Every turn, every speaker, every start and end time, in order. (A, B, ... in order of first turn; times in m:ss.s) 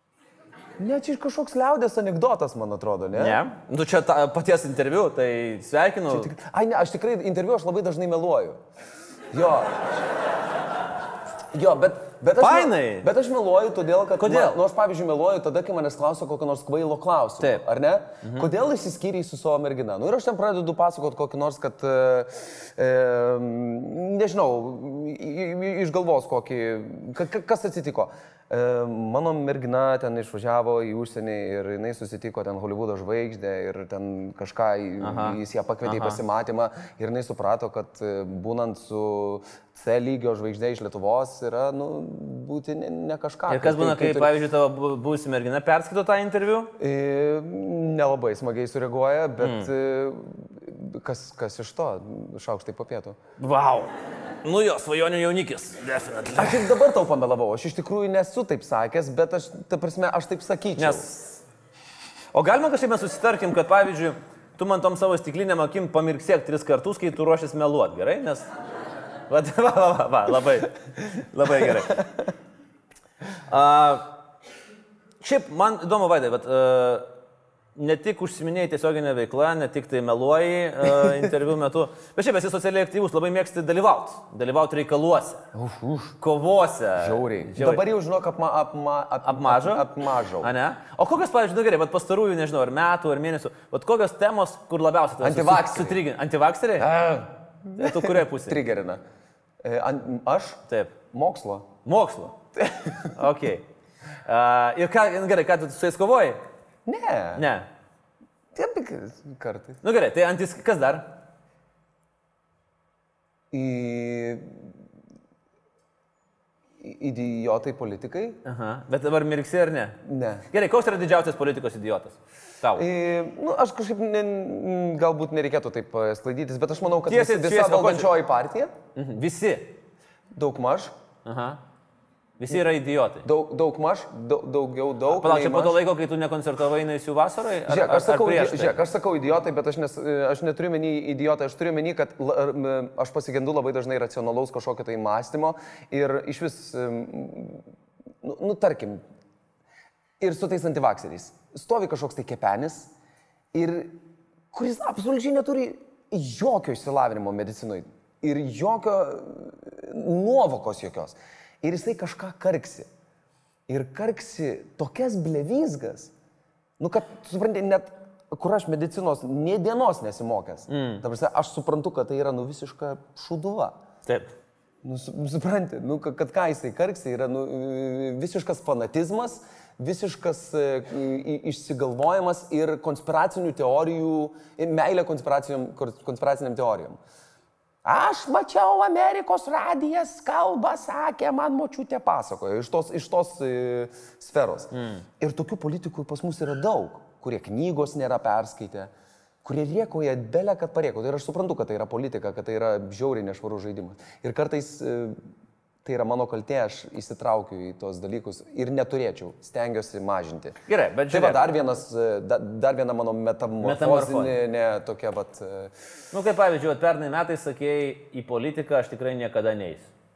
0:00.8-0:03.4 A
0:03.2-0:06.3 B
0:06.1-0:08.6 A
0:09.3-0:09.9 A
0:11.5-0:44.4 A
0:12.4-0:13.1 B
0:14.2-0:14.6 B
0:18.2-0:18.5 B
0:35.0-0:36.2 B
0:43.5-0:46.7 B
0:46.8-0:53.2 A
0:49.4-0:49.7 B
0:53.4-0:53.9 B
0:54.4-0:56.7 B
0:56.4-1:01.1 A
1:00.8-1:01.4 B
1:02.3-1:08.5 B
1:09.3-1:12.1 B
1:13.5-1:14.1 B
1:15.2-1:17.1 B
1:17.8-1:25.4 B
1:25.5-1:26.2 A
1:26.2-1:27.8 B
1:27.0-1:30.5 A
1:29.2-1:29.9 B
1:30.4-1:37.0 B
1:35.2-1:36.0 A
1:36.8-1:39.0 A
1:37.8-1:38.6 B
1:39.6-1:41.7 A
1:40.7-1:40.9 B
1:41.8-1:42.4 B
1:42.6-1:43.1 A
1:43.1-1:43.7 B
1:44.2-1:46.4 B
1:46.9-1:47.5 A
1:47.4-1:47.7 B
1:48.5-1:49.8 A
1:49.8-1:51.2 B
1:53.5-1:54.6 A
1:56.8-1:58.4 A
1:58.4-2:02.8 B
2:00.0-2:00.5 A
2:02.8-2:08.8 A
2:07.1-2:08.1 B
2:09.0-2:09.8 B
2:10.3-2:10.9 A
2:11.2-2:11.6 B
2:12.4-2:13.3 B
2:13.2-2:15.8 A
2:15.1-2:18.8 B
2:17.7-2:27.7 A
2:28.2-2:29.0 A
2:30.2-2:32.9 A
2:33.5-2:42.9 A
2:43.7-2:46.1 A
2:46.8-2:53.8 A
2:50.7-2:51.0 B
2:54.1-2:54.3 B
2:54.8-3:07.0 A
3:07.8-3:18.9 A
3:14.8-3:15.0 B
3:19.4-3:25.2 A
3:25.8-3:35.7 A
3:30.7-3:31.5 B
3:33.6-3:34.4 B
3:36.1-3:39.9 B